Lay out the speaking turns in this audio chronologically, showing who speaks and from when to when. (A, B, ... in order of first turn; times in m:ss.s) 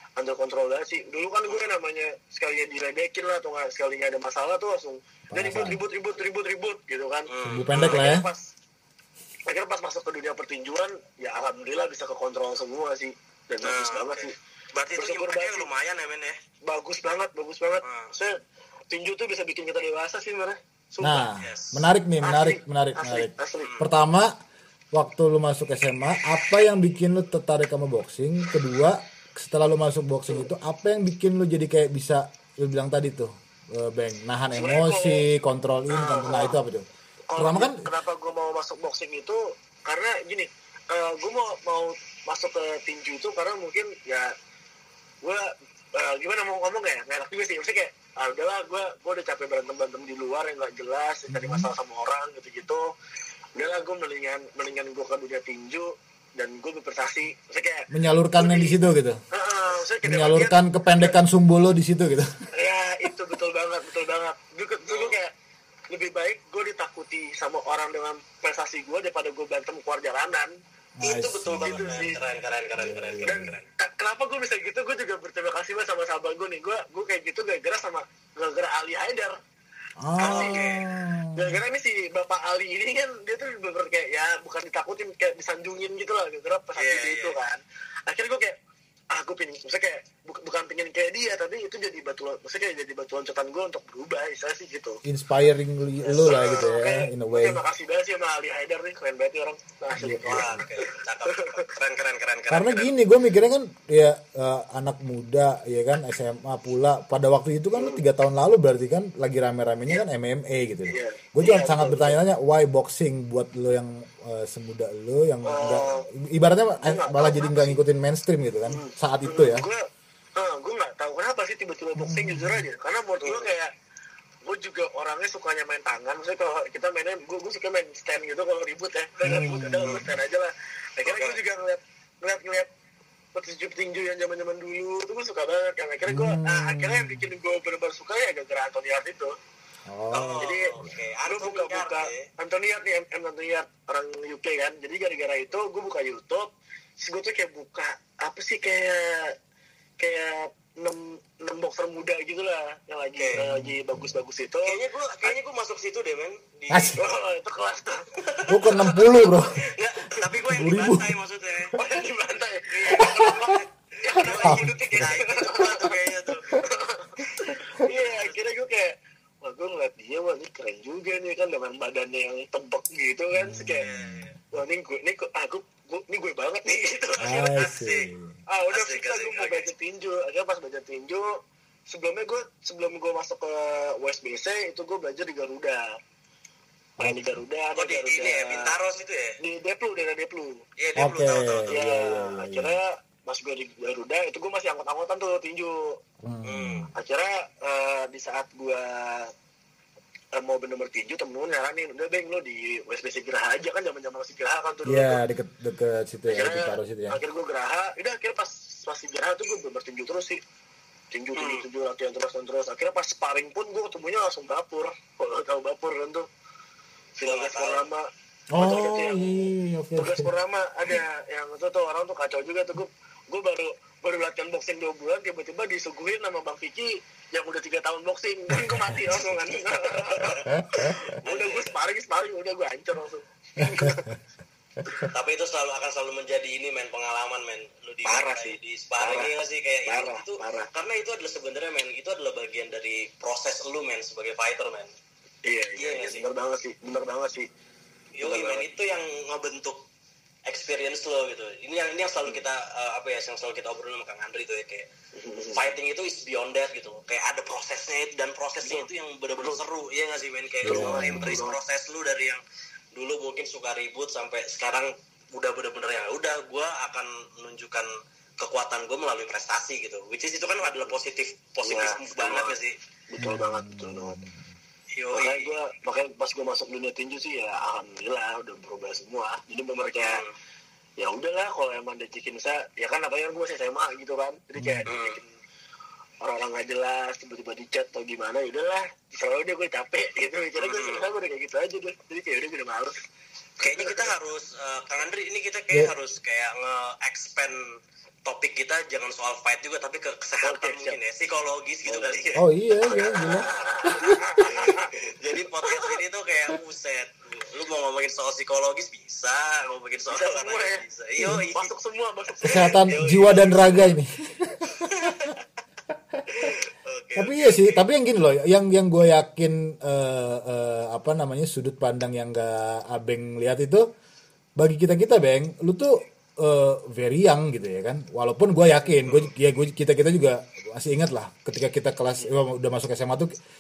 0:00.2-0:08.5 A
0:05.3-0:05.8 B
0:07.3-0:08.1 C
0:07.4-0:08.3 B
0:09.5-0:14.3 A
0:13.6-0:16.4 C
0:15.0-0:15.7 A
0:16.6-0:18.4 A
0:17.8-0:18.1 C
0:18.9-0:21.3 A
0:21.0-0:24.3 B
0:21.4-0:21.8 C
0:22.2-0:23.7 A
0:23.6-0:23.9 C
0:24.9-0:37.8 B
0:34.5-0:35.2 A
0:35.9-0:36.6 A
0:37.3-0:44.3 A
0:45.2-0:52.9 A
0:51.3-0:51.7 B
0:53.6-0:58.8 A
0:57.9-0:59.2 B
0:59.3-1:01.1 A
1:00.0-1:02.3 B
1:02.6-1:05.3 A
1:04.9-1:05.2 C
1:05.9-1:10.5 A
1:11.0-1:12.1 B
1:11.0-1:13.7 C
1:11.6-1:12.2 A
1:12.8-1:13.6 B
1:13.2-1:19.4 A
1:20.0-1:21.6 B
1:20.2-1:20.7 A
1:20.2-1:20.8 C
1:21.4-1:28.6 A
1:26.8-1:27.4 C
1:29.1-1:35.0 A
1:35.0-1:37.6 B
1:36.0-1:41.7 A
1:40.0-1:40.7 B
1:40.3-1:42.9 C
1:42.5-1:59.7 B
1:47.8-1:48.0 A
1:50.9-1:52.2 A
1:55.4-1:56.0 A
1:56.8-1:57.8 A
1:58.7-1:59.8 A
2:00.4-2:03.7 A
2:02.0-2:02.6 B
2:03.2-2:03.5 C
2:04.4-2:12.7 A
2:09.2-2:10.0 B
2:11.0-2:11.4 C
2:13.3-2:19.3 A
2:16.1-2:17.3 B
2:19.9-2:21.0 B
2:20.1-2:22.3 C
2:20.4-2:20.7 A
2:21.3-2:29.3 A
2:30.0-2:35.4 A
2:33.4-2:34.1 B
2:34.7-2:37.1 C
2:36.7-2:37.0 B
2:37.0-2:39.4 A
2:38.3-2:38.5 C
2:38.5-2:39.6 B
2:39.6-2:41.8 C
2:40.4-2:41.2 B
2:41.7-2:46.0 A
2:42.9-2:43.6 C
2:43.0-2:43.5 B
2:44.1-2:46.5 C
2:44.3-2:45.1 B
2:46.5-2:53.9 A
2:47.8-2:48.4 C
2:53.3-2:54.3 B
2:53.7-2:54.4 C
2:54.5-2:57.3 A
2:57.2-2:58.1 C
2:57.2-2:58.4 B
2:58.5-3:01.3 A
2:58.7-2:59.7 C
3:01.9-3:05.8 A
3:07.0-3:08.7 A
3:07.0-3:07.4 B
3:07.8-3:09.4 C
3:09.4-3:10.6 A
3:10.8-3:11.7 C
3:11.0-3:12.8 B
3:11.7-3:16.0 A
3:16.2-3:16.9 B
3:16.4-3:16.9 C
3:17.0-3:19.3 A
3:20.4-3:25.2 A
3:24.9-3:27.2 B
3:26.3-3:30.4 A
3:31.1-3:36.3 A
3:31.4-3:31.6 C
3:37.2-3:38.0 A
3:37.2-3:37.8 C
3:38.5-3:40.3 B
3:38.6-3:54.1 A
3:48.6-3:49.1 B
3:50.5-3:51.0 B
3:51.2-3:51.7 C
3:53.6-3:54.1 B
3:55.1-4:04.9 C
3:58.1-3:59.3 A
3:59.9-4:00.7 A
4:05.5-4:07.5 A
4:05.8-4:06.3 C
4:08.2-4:09.8 C
4:08.2-4:08.7 A
4:10.5-4:14.8 C
4:15.2-4:15.6 A
4:15.5-4:22.4 C
4:20.6-4:21.4 B
4:20.6-4:21.6 A
4:22.9-4:27.9 C
4:28.4-4:32.8 C
4:31.6-4:32.5 A
4:33.1-4:34.2 A
4:33.2-4:34.4 B
4:34.9-4:35.5 C
4:35.1-4:40.2 A
4:40.0-4:40.3 C
4:41.0-4:45.3 A
4:44.6-4:44.9 B
4:44.9-4:45.2 C
4:46.2-4:53.0 A
4:50.6-4:51.0 C
4:53.6-4:57.6 C
4:53.6-4:54.1 A
4:58.3-5:02.4 C
5:00.4-5:01.0 A
5:01.9-5:06.0 A
5:02.4-5:04.4 B
5:04.5-5:11.7 C
5:10.1-5:12.9 A
5:11.2-5:11.4 B
5:12.4-5:13.9 C
5:12.4-5:15.3 B
5:14.8-5:15.4 C
5:16.4-5:17.8 C
5:17.2-5:23.8 B
5:24.6-5:33.3 B